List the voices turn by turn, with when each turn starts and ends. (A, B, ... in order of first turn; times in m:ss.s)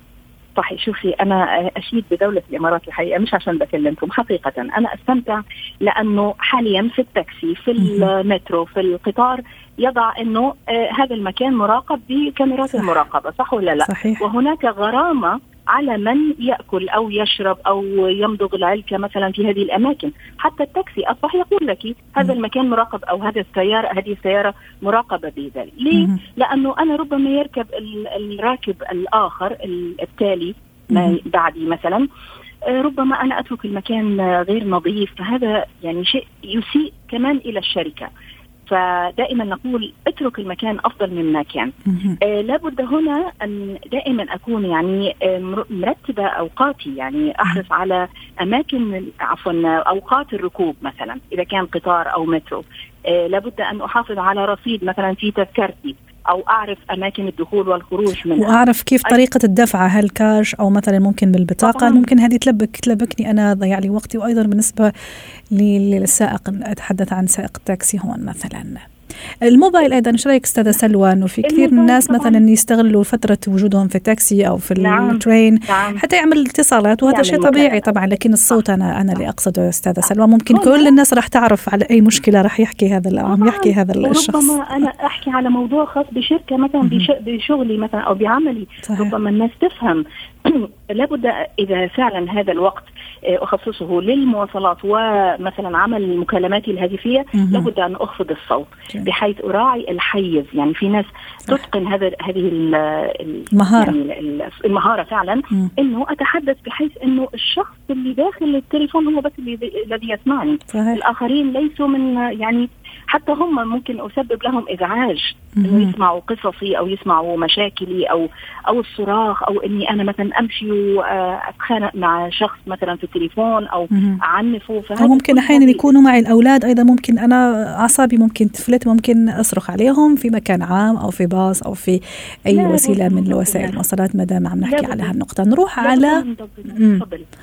0:00.6-0:32.0 A
0:07.8-0:08.1 B
0:13.8-0:14.2 B
0:25.9-0:26.2 B
0:30.9-0:31.2 B
0:32.7-0:38.1 A
0:38.7-0:59.2 A
0:41.9-0:42.2 B
0:58.4-1:04.9 B
1:01.6-1:02.1 A
1:05.5-1:08.8 B
1:09.4-1:24.6 B
1:11.4-1:12.4 A
1:14.8-1:16.0 A
1:17.0-1:17.9 A
1:20.5-1:20.9 A
1:23.3-2:05.8 A
1:28.8-1:29.1 B
1:37.4-1:37.7 B
1:43.6-1:44.0 B
1:50.7-1:51.0 B
1:55.6-1:55.9 B
2:03.9-2:04.2 B
2:05.0-2:17.0 B
2:12.5-2:13.8 A
2:14.6-2:15.1 A
2:15.8-2:17.3 A